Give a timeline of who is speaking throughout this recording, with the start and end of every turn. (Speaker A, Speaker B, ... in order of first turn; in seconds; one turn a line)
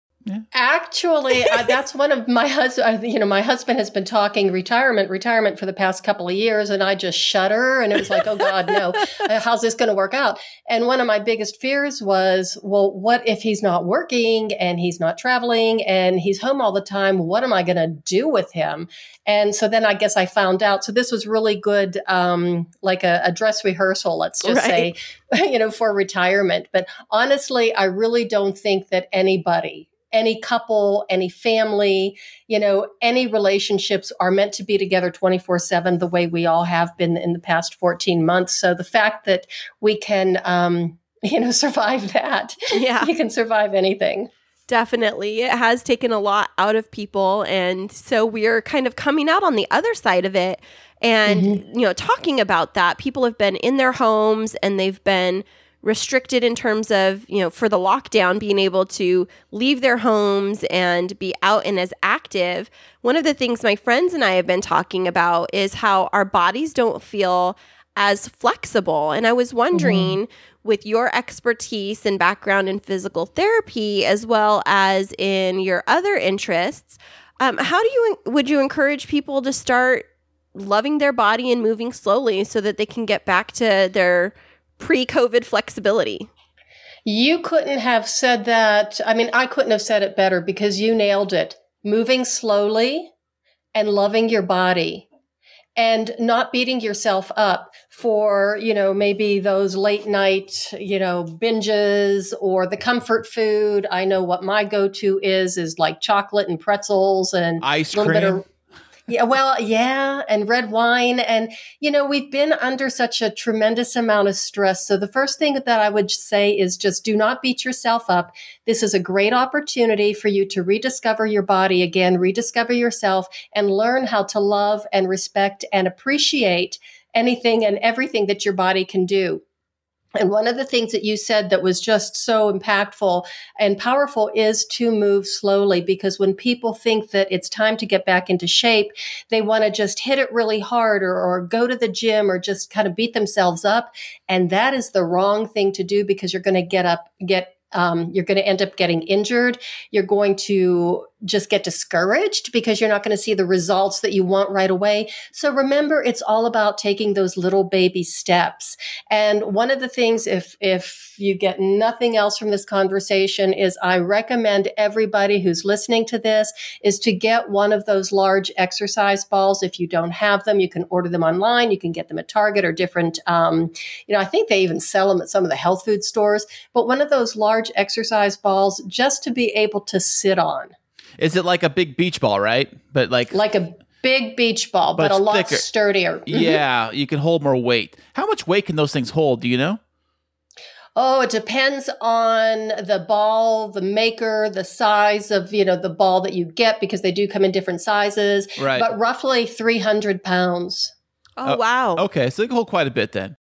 Speaker A: 0.5-44.3
Speaker B: 24.4-24.9
Speaker B: 42.7-43.1
Speaker B: 44.7-86.3
Speaker A: 51.3-51.6
Speaker A: 69.7-70.2
Speaker A: 87.0-93.1
Speaker A: 93.7-95.1
Speaker A: 95.8-108.4
Speaker C: 107.6-108.4
Speaker A: 109.1-129.4
Speaker A: 130.2-180.7
Speaker C: 181.2-183.4
Speaker A: 183.3-186.6
Speaker C: 185.0-185.6
Speaker C: 186.3-189.8
Speaker A: 190.9-200.9
Speaker C: 198.6-198.9
Speaker B: 201.4-202.1
Speaker C: 201.4-203.4